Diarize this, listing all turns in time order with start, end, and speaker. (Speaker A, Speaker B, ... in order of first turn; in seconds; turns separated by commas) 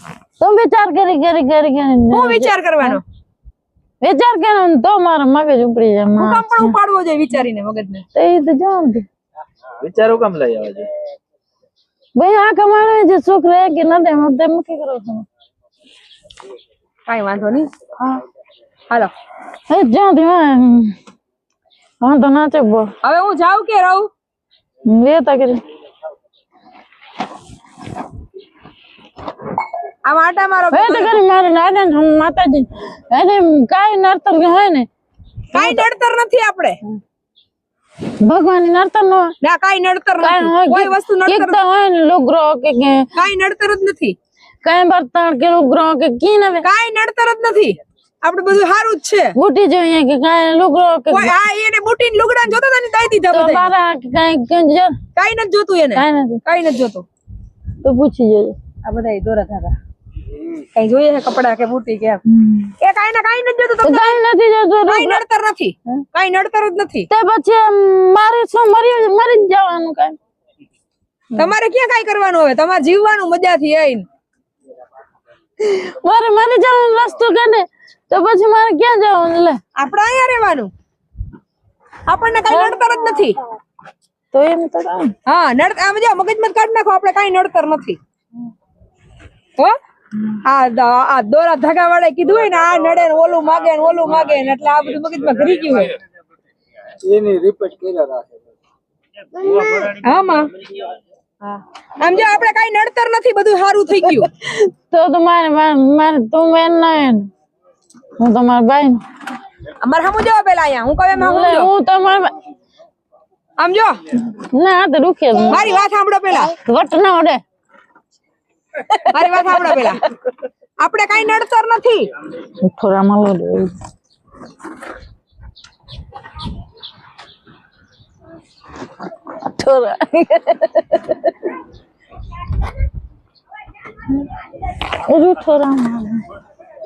Speaker A: 0.4-3.0, Speaker B: 2.1-3.0, Speaker A: 4.0-6.7, Speaker B: 6.2-8.1, Speaker A: 8.2-9.1, Speaker C: 9.8-10.9, Speaker A: 12.2-15.3, Speaker B: 17.1-17.7, Speaker A: 19.7-20.9, Speaker A: 22.0-22.9, Speaker B: 23.0-24.1, Speaker A: 24.9-25.6, Speaker B: 30.1-31.2, Speaker A: 30.7-34.9, Speaker B: 35.5-36.8, Speaker A: 35.6-35.9, Speaker A: 38.2-39.3, Speaker B: 39.4-41.6, Speaker A: 40.2-43.1, Speaker B: 43.1-44.1, Speaker A: 44.6-46.6, Speaker B: 46.6-49.3, Speaker A: 49.4-51.4, Speaker B: 51.1-53.7, Speaker A: 53.3-55.0, Speaker B: 55.2-57.0, Speaker A: 56.0-56.4, Speaker A: 57.8-58.6, Speaker B: 58.8-59.8, Speaker B: 60.8-62.2, Speaker A: 62.3-62.7, Speaker B: 62.8-64.2, Speaker A: 63.8-65.2, Speaker B: 64.9-67.1, Speaker A: 67.1-70.2, Speaker B: 71.4-74.0, Speaker A: 75.7-79.6, Speaker B: 79.8-80.7, Speaker B: 82.1-83.4, Speaker A: 82.5-83.3, Speaker A: 84.3-85.1, Speaker B: 85.3-88.0, Speaker B: 90.5-96.0, Speaker C: 97.0-98.3, Speaker B: 99.8-100.5, Speaker B: 101.4-104.3, Speaker A: 104.9-107.3, Speaker A: 108.2-109.0, Speaker B: 109.8-111.7, Speaker A: 111.1-112.3, Speaker B: 113.6-114.0, Speaker A: 114.3-117.4, Speaker B: 115.5-116.5, Speaker A: 118.9-119.9, Speaker B: 119.1-120.0, Speaker B: 120.8-122.1, Speaker A: 122.6-123.7, Speaker A: 129.2-131.3, Speaker A: 134.9-136.2